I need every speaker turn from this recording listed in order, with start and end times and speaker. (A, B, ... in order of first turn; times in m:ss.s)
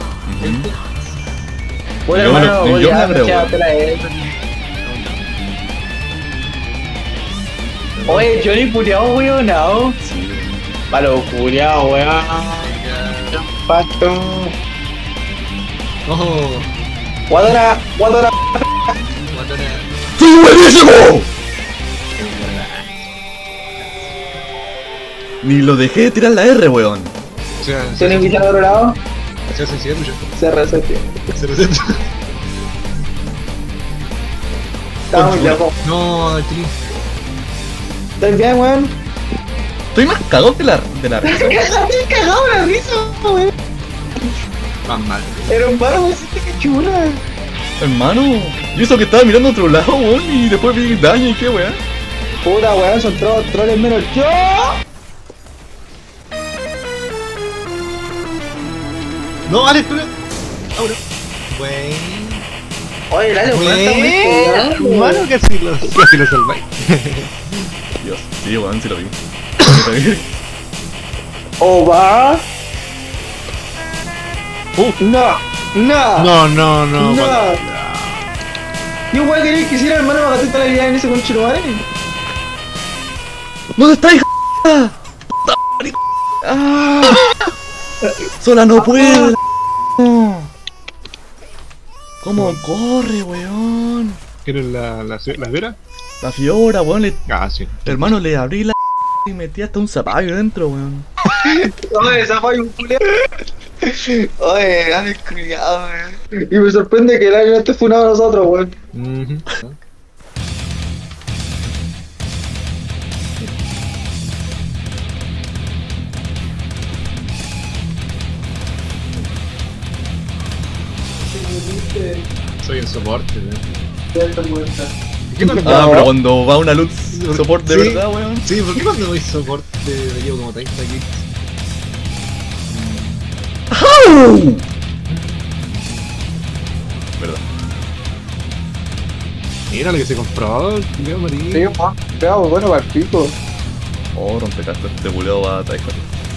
0:00.2-0:00.7 A
0:02.1-0:04.2 B
0:02.1-0:03.6 A
0:04.8-0:05.2 C
0:07.9-0:08.4 C
0:08.1-0:10.0 B
0:10.0-0:10.6 A
0:10.9-0:12.7 B
0:12.6-0:13.4 C
0:13.3-0:14.5 B
0:16.1-0:16.7 C
0:17.3-0:18.6 B
0:19.3-0:19.9 C
0:20.2-0:21.3 A
0:22.2-0:23.0 C
0:25.4-0:27.1 A
0:27.6-0:28.5 C
0:28.0-0:29.0 B
0:29.5-0:30.3 C
0:30.4-0:31.2 B
0:31.3-0:32.0 C
0:35.1-0:35.8 B
0:35.1-0:35.6 A
0:35.8-0:36.7 C
0:38.2-0:38.9 B
0:39.9-0:41.6 A
0:41.2-0:43.5 B
0:44.9-0:45.6 C
0:45.5-0:47.2 B
0:47.8-0:51.8 A
0:52.4-0:54.8 B
0:59.5-1:00.1 C
1:00.8-1:01.0 C
1:01.5-1:02.4 C
1:03.1-1:05.2 B
1:03.5-1:07.7 C
1:08.0-1:10.2 A
1:11.6-1:12.4 B
1:15.0-1:16.3 B
1:16.2-1:18.2 C
1:17.0-1:17.6 B
1:19.1-1:21.8 B
1:23.8-1:24.9 A
1:25.4-1:27.4 A
1:28.4-1:29.4 A
1:28.8-1:29.4 B
1:30.0-1:30.5 A
1:32.2-1:34.2 A
1:32.4-1:32.6 C
1:34.4-1:35.8 C
1:36.2-1:37.2 A
1:37.3-1:38.0 C
1:37.9-1:41.1 A
1:41.4-1:43.1 B
1:43.8-1:48.7 B
1:48.9-1:49.8 C
2:01.2-2:02.2 B
2:02.6-2:03.6 C
2:04.1-2:04.9 B
2:05.3-2:06.1 C
2:05.4-2:06.1 B
2:05.6-2:08.5 A
2:07.1-2:11.2 C
2:12.7-2:13.3 C
2:13.7-2:14.6 A
2:15.1-2:16.1 C
2:17.2-2:17.4 A
2:19.7-2:21.7 C
2:21.5-2:23.4 B
2:24.1-2:26.1 A